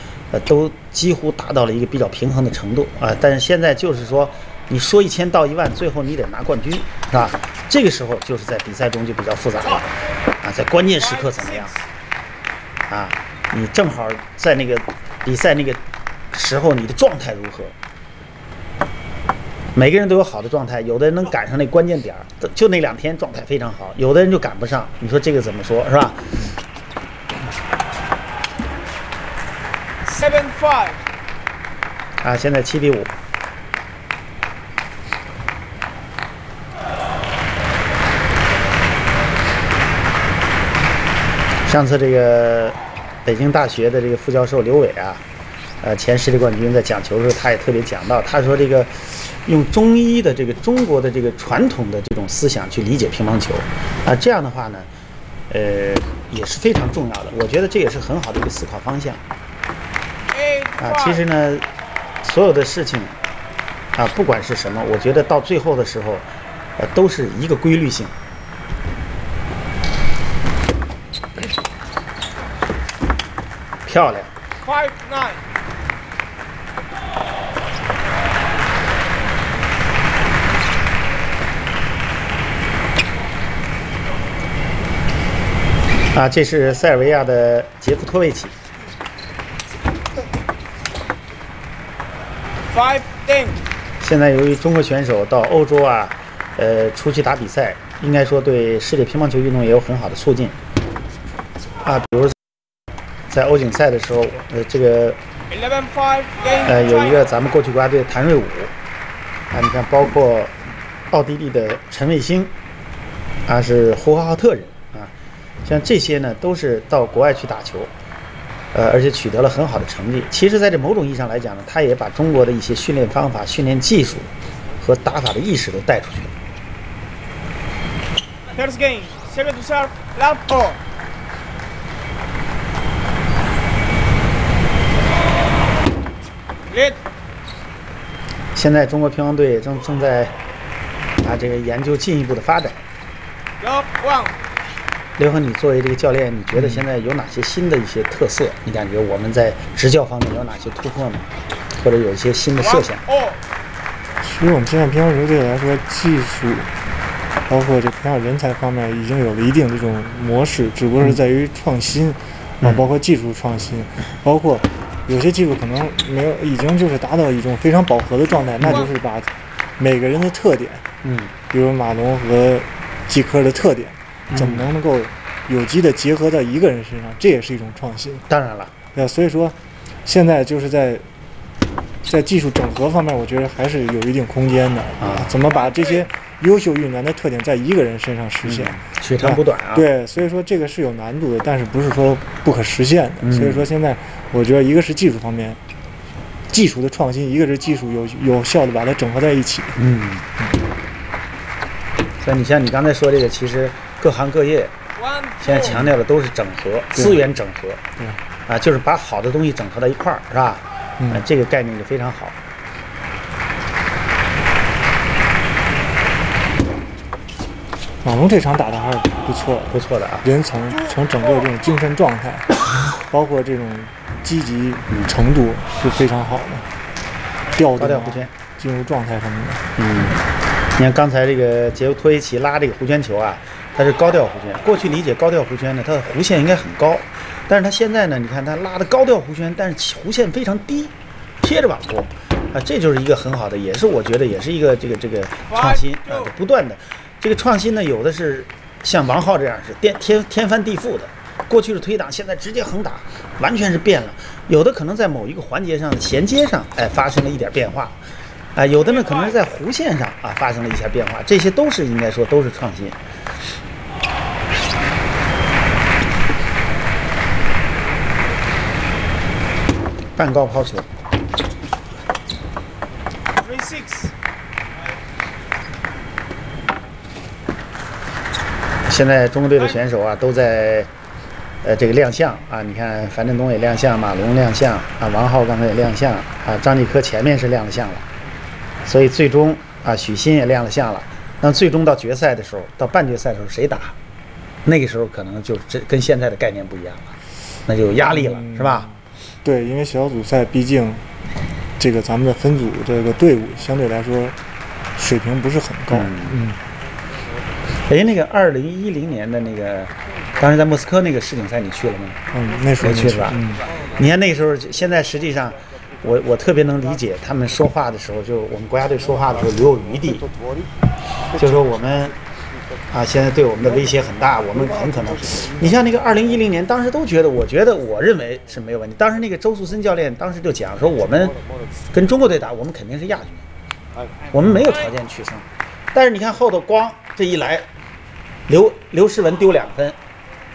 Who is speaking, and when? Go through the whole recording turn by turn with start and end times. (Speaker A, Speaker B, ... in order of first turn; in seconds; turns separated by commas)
Speaker A: 0.3-11.8, Speaker B: 11.0-11.7, Speaker A: 12.9-15.8, Speaker A: 16.3-17.7, Speaker A: 19.7-26.3, Speaker B: 30.1-31.0, Speaker A: 32.2-33.1, Speaker A: 41.6-45.2, Speaker A: 45.8-54.9, Speaker A: 55.5-59.2, Speaker B: 60.3-61.2, Speaker A: 60.8-61.6, Speaker A: 62.2-63.1, Speaker A: 63.9-66.3, Speaker A: 66.8-68.1, Speaker A: 73.8-74.3, Speaker B: 74.6-75.4, Speaker A: 86.1-88.5, Speaker B: 92.7-93.6, Speaker A: 94.0-100.5, Speaker A: 101.8-102.3, Speaker A: 103.3-105.2, Speaker B: 105.5-107.2, Speaker A: 106.6-108.7, Speaker A: 109.5-110.5, Speaker A: 111.1-112.5, Speaker A: 113.5-115.1, Speaker A: 115.6-117.9, Speaker A: 118.7-126.3, Speaker B: 128.5-130.8, Speaker B: 136.7-137.0, Speaker A: 138.5-140.3, Speaker A: 141.2-142.8, Speaker B: 143.6-144.3, Speaker A: 145.2-151.2, Speaker C: 146.5-146.8, Speaker A: 151.8-153.0, Speaker B: 152.6-153.4, Speaker C: 154.2-156.7, Speaker C: 157.5-170.8, Speaker A: 162.6-162.9, Speaker B: 168.6-168.9, Speaker A: 171.0-171.3, Speaker C: 171.5-178.2, Speaker A: 174.3-174.7, Speaker A: 178.3-178.7, Speaker C: 178.9-181.1, Speaker C: 182.0-195.6, Speaker A: 185.0-185.4, Speaker B: 185.4-186.0, Speaker A: 188.4-189.9, Speaker A: 193.2-193.7, Speaker C: 196.5-199.8, Speaker A: 199.8-200.2, Speaker A: 202.2-204.7, Speaker B: 205.0-205.7, Speaker A: 205.4-207.8, Speaker C: 206.9-207.2, Speaker A: 208.5-212.3, Speaker C: 211.0-211.2, Speaker C: 218.0-226.7, Speaker A: 219.7-220.2, Speaker B: 220.8-221.5, Speaker C: 227.5-229.6, Speaker A: 227.7-228.3, Speaker A: 229.8-230.2, Speaker A: 230.8-258.0, Speaker B: 245.5-246.3, Speaker A: 258.5-262.9, Speaker B: 258.8-259.3, Speaker A: 270.2-270.9, Speaker B: 273.4-274.1, Speaker A: 278.9-280.9, Speaker A: 281.6-288.0, Speaker A: 288.9-293.9, Speaker A: 294.6-297.1, Speaker A: 297.7-298.9, Speaker C: 298.0-301.0, Speaker C: 301.8-304.4, Speaker C: 304.9-306.6, Speaker A: 305.9-306.4, Speaker A: 307.9-312.2, Speaker C: 312.3-313.6, Speaker A: 312.8-313.4, Speaker A: 314.0-320.3, Speaker A: 321.3-322.2, Speaker A: 322.9-331.4, Speaker A: 331.9-333.4, Speaker A: 334.3-337.7, Speaker A: 338.5-339.9